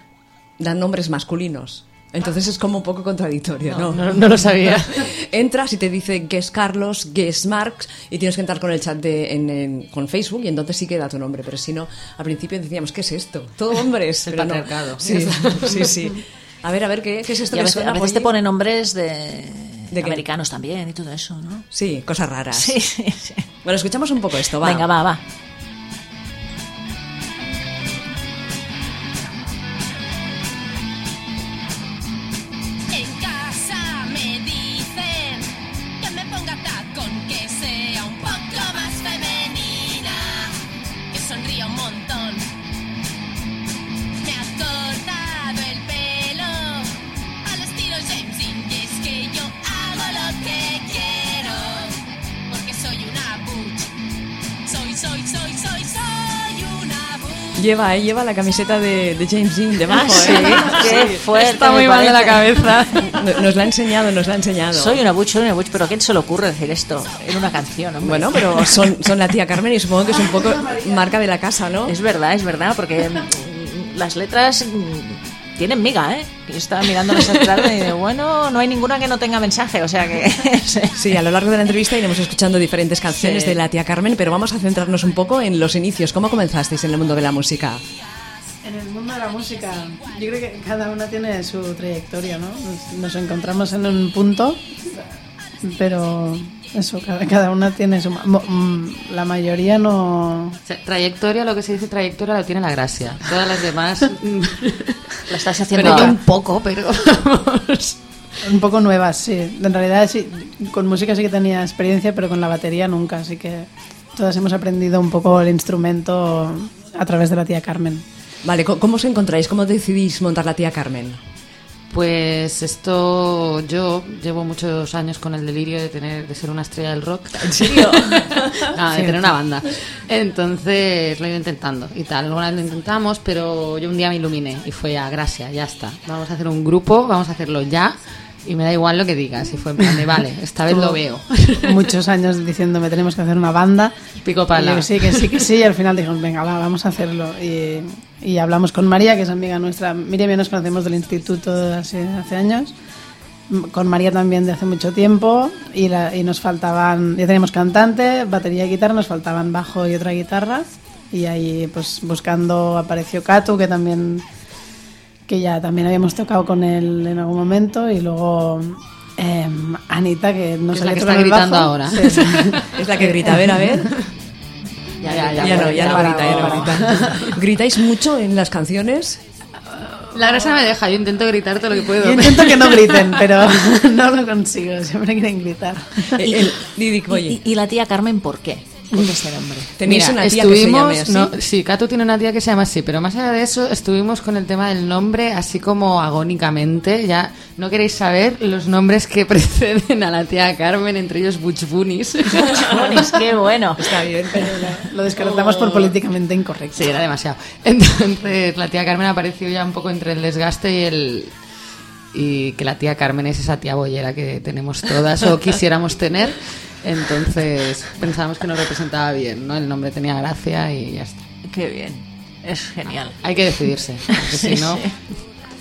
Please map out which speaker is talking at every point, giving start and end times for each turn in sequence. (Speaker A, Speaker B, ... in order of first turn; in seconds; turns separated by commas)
Speaker A: 0.6-4.1, Speaker B: 3.8-5.1, Speaker A: 4.7-18.3, Speaker B: 14.2-15.9, Speaker C: 17.5-21.6, Speaker A: 19.9-20.2, Speaker A: 21.7-22.8, Speaker C: 22.5-23.4, Speaker A: 23.6-24.9, Speaker C: 24.6-25.2, Speaker D: 32.9-40.6, Speaker D: 41.1-42.5, Speaker D: 44.2-53.9, Speaker D: 54.6-57.6, Speaker A: 57.6-61.1, Speaker C: 59.9-63.0, Speaker B: 60.3-63.2, Speaker A: 63.0-65.0, Speaker C: 64.7-68.9, Speaker A: 68.0-71.9, Speaker C: 71.9-81.1, Speaker A: 81.0-87.8, Speaker C: 83.1-83.6, Speaker E: 88.6-95.1, Speaker E: 95.6-100.6, Speaker B: 100.7-108.0, Speaker C: 105.3-106.2, Speaker E: 105.8-106.1, Speaker E: 108.4-118.0, Speaker A: 118.4-121.2, Speaker B: 121.9-127.9, Speaker C: 127.5-128.1, Speaker A: 127.7-128.7, Speaker B: 128.6-141.9, Speaker C: 128.9-129.2, Speaker E: 140.7-141.0, Speaker E: 141.6-143.9, Speaker B: 144.2-145.4, Speaker E: 144.5-152.7, Speaker E: 153.5-164.2, Speaker E: 165.3-173.9, Speaker B: 170.7-172.7, Speaker A: 172.7-173.9, Speaker C: 175.0-176.6, Speaker B: 175.0-177.3, Speaker E: 175.1-177.3, Speaker A: 175.4-179.2, Speaker B: 180.1-183.2, Speaker E: 182.0-186.4, Speaker A: 186.1-187.4, Speaker C: 187.1-189.7, Speaker A: 189.8-191.3, Speaker B: 189.8-202.7, Speaker C: 202.4-203.9, Speaker A: 203.8-204.7, Speaker E: 204.3-206.9, Speaker B: 205.1-205.9, Speaker B: 206.7-211.3, Speaker B: 212.1-221.2, Speaker C: 221.4-223.2, Speaker B: 223.2-225.0, Speaker C: 224.1-224.9